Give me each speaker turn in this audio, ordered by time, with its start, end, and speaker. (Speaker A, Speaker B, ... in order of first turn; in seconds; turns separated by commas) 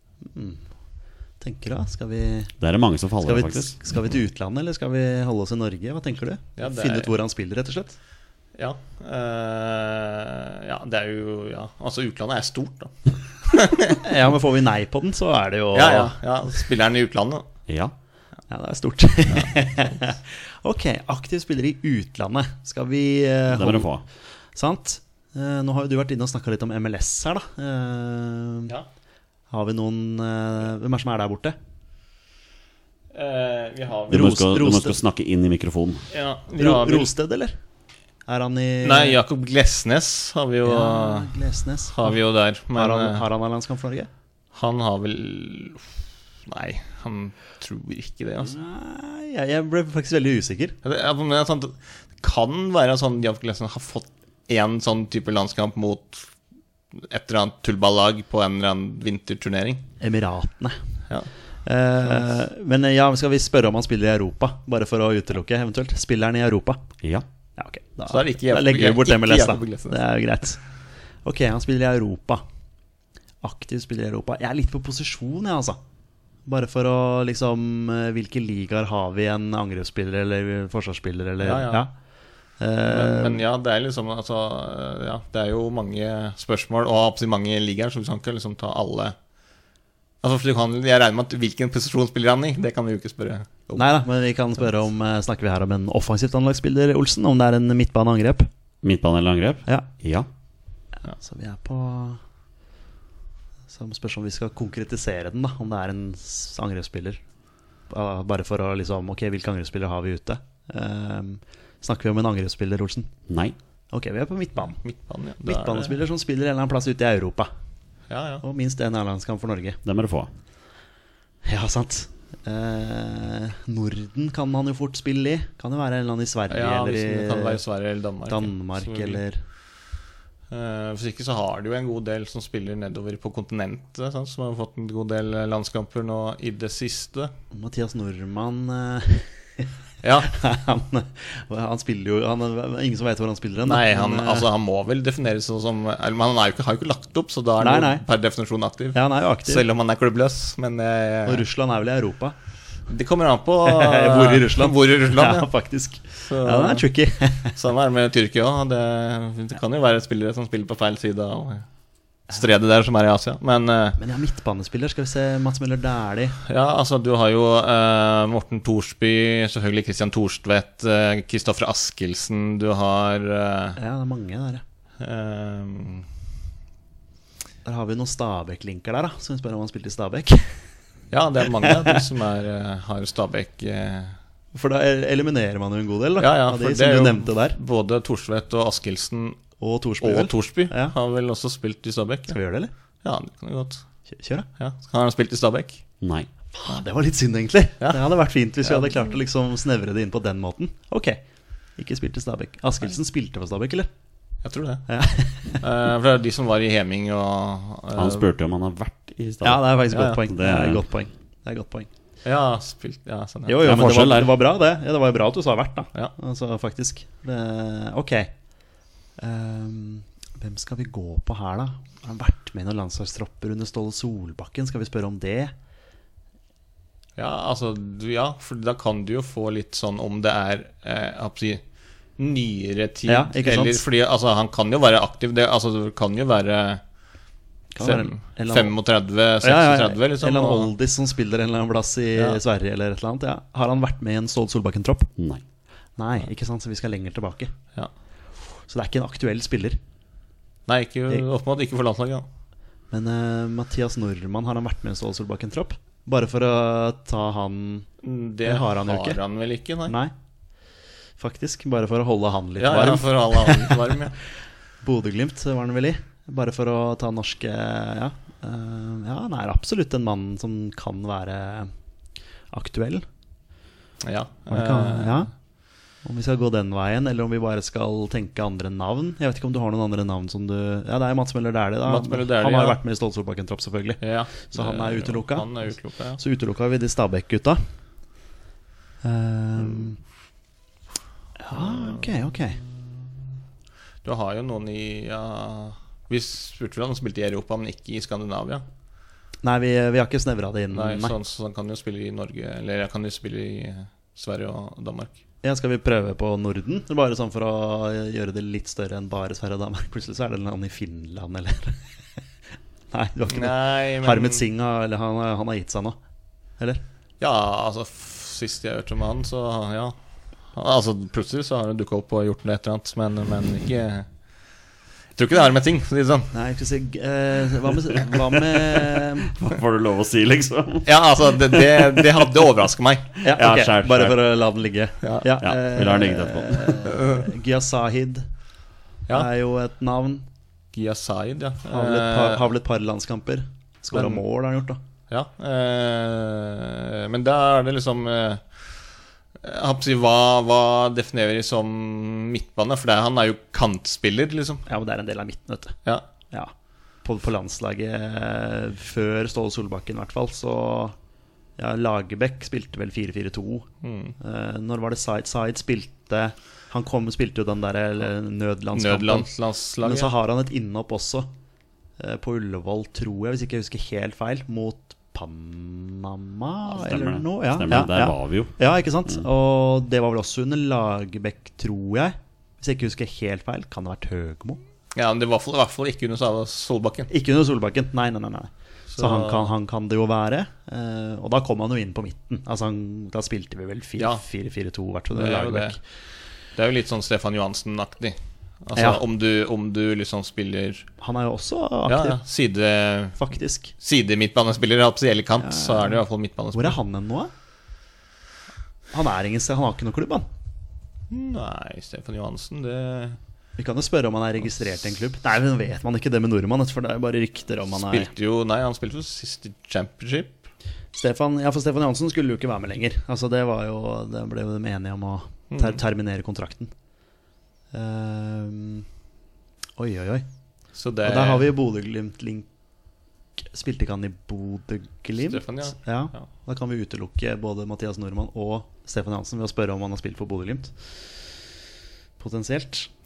Speaker A: 0.3-0.6, Speaker A: 1.4-2.5, Speaker B: 2.6-3.8, Speaker A: 3.2-8.0, Speaker C: 6.6-7.1, Speaker C: 8.6-14.0, Speaker A: 14.0-16.1, Speaker C: 15.7-17.5, Speaker B: 17.7-17.9, Speaker A: 18.5-23.9, Speaker B: 23.5-24.0, Speaker A: 24.6-28.7, Speaker A: 29.5-31.6, Speaker C: 33.1-34.3, Speaker A: 34.1-35.0, Speaker B: 34.1-36.0, Speaker C: 36.1-37.1, Speaker A: 36.6-37.5, Speaker A: 38.3-39.2, Speaker C: 38.8-41.3, Speaker A: 40.6-42.2, Speaker C: 41.9-43.2, Speaker A: 42.7-44.1, Speaker C: 44.5-45.9, Speaker C: 46.5-48.5, Speaker A: 48.4-50.8, Speaker C: 50.8-56.3, Speaker C: 57.0-59.8, Speaker A: 60.0-60.8, Speaker A: 61.6-66.8, Speaker A: 67.6-70.6, Speaker C: 68.1-70.0, Speaker A: 71.2-72.4, Speaker A: 73.4-75.8, Speaker A: 76.5-81.9, Speaker C: 81.4-81.8, Speaker A: 82.6-83.4, Speaker C: 82.9-89.2, Speaker C: 90.2-93.8, Speaker A: 93.8-98.5, Speaker B: 98.8-100.3, Speaker A: 101.1-102.2, Speaker A: 103.7-107.2, Speaker A: 107.9-113.1, Speaker B: 113.3-113.6, Speaker A: 113.9-114.8, Speaker C: 114.6-116.0, Speaker A: 115.4-117.5, Speaker C: 118.1-118.4, Speaker A: 118.4-119.8, Speaker B: 119.8-120.3, Speaker A: 121.5-127.6, Speaker C: 126.5-129.2, Speaker A: 128.3-129.4, Speaker C: 130.5-137.3, Speaker A: 137.5-139.7, Speaker C: 140.0-140.3, Speaker A: 140.2-144.5, Speaker C: 143.7-151.4, Speaker A: 147.6-148.0, Speaker A: 148.9-149.6, Speaker A: 151.3-152.4, Speaker C: 152.9-155.5, Speaker A: 153.7-157.6, Speaker C: 156.2-156.9, Speaker C: 157.6-161.7, Speaker C: 162.3-164.0, Speaker A: 164.0-166.4, Speaker C: 166.5-173.8, Speaker A: 173.8-174.6, Speaker C: 175.0-176.1, Speaker A: 177.7-180.7, Speaker C: 181.1-184.2, Speaker A: 181.6-182.0, Speaker A: 184.5-187.6, Speaker C: 186.2-189.4, Speaker A: 189.6-190.9, Speaker C: 190.0-192.4, Speaker A: 192.3-192.7, Speaker C: 193.0-193.8, Speaker A: 194.1-194.5, Speaker C: 194.6-195.8, Speaker B: 196.0-196.3, Speaker A: 196.6-201.2, Speaker C: 198.6-199.1, Speaker A: 201.8-203.9, Speaker C: 204.4-204.8, Speaker A: 204.9-205.6, Speaker C: 205.6-208.2, Speaker B: 208.0-210.8, Speaker A: 209.4-211.9, Speaker C: 209.9-210.2, Speaker C: 212.2-213.7, Speaker A: 213.5-218.3, Speaker B: 213.6-214.3, Speaker A: 219.2-225.5, Speaker C: 227.2-231.6, Speaker C: 232.2-236.8, Speaker A: 233.1-233.8, Speaker A: 237.7-238.7, Speaker C: 237.8-240.7, Speaker A: 239.4-245.1, Speaker A: 246.0-247.5, Speaker A: 248.7-249.8, Speaker C: 250.7-252.3, Speaker A: 252.9-257.9, Speaker C: 258.0-259.9, Speaker A: 258.4-259.2, Speaker A: 259.9-260.1, Speaker A: 261.2-263.9, Speaker C: 262.6-264.1, Speaker A: 264.8-271.7, Speaker A: 272.5-273.1, Speaker C: 274.0-275.3, Speaker A: 274.5-275.3, Speaker A: 276.0-287.6, Speaker C: 281.9-282.8, Speaker C: 284.0-286.2, Speaker A: 289.0-290.0, Speaker A: 291.4-292.6, Speaker C: 291.5-292.7, Speaker C: 294.0-298.6, Speaker A: 299.4-301.1, Speaker C: 300.7-305.1, Speaker A: 305.4-311.8, Speaker A: 312.9-316.0, Speaker C: 313.3-314.4, Speaker C: 317.2-319.9, Speaker C: 320.5-324.1, Speaker C: 325.1-326.3, Speaker A: 326.3-329.3, Speaker B: 328.7-330.9, Speaker C: 330.9-333.1, Speaker B: 331.5-332.1, Speaker A: 333.2-338.3, Speaker B: 333.3-334.2, Speaker B: 335.4-336.8, Speaker C: 336.8-337.3, Speaker A: 339.1-340.3, Speaker C: 340.7-342.4, Speaker A: 341.7-344.8, Speaker C: 343.9-344.2, Speaker C: 345.1-348.4, Speaker C: 349.4-354.6, Speaker A: 354.7-355.8, Speaker A: 357.0-361.0, Speaker A: 361.6-363.7, Speaker C: 363.8-364.1, Speaker A: 364.2-369.3, Speaker C: 368.7-370.1, Speaker A: 369.8-371.3, Speaker A: 372.0-384.6, Speaker B: 376.8-378.5, Speaker C: 384.9-387.1, Speaker A: 387.1-395.8, Speaker C: 388.9-389.5, Speaker C: 395.1-395.8, Speaker C: 396.6-400.9, Speaker A: 398.8-399.0, Speaker A: 401.0-402.2, Speaker C: 401.9-403.2, Speaker A: 403.2-403.7, Speaker C: 403.8-406.8, Speaker A: 405.4-406.0, Speaker A: 406.6-407.3, Speaker A: 408.9-410.3, Speaker C: 411.1-413.2, Speaker A: 413.6-418.1, Speaker C: 417.9-420.4, Speaker A: 420.9-426.7, Speaker C: 425.5-425.8, Speaker A: 427.7-428.9, Speaker A: 429.8-430.3, Speaker C: 430.8-431.5, Speaker A: 431.0-432.5, Speaker A: 433.4-440.7, Speaker C: 435.2-436.2, Speaker A: 442.2-442.9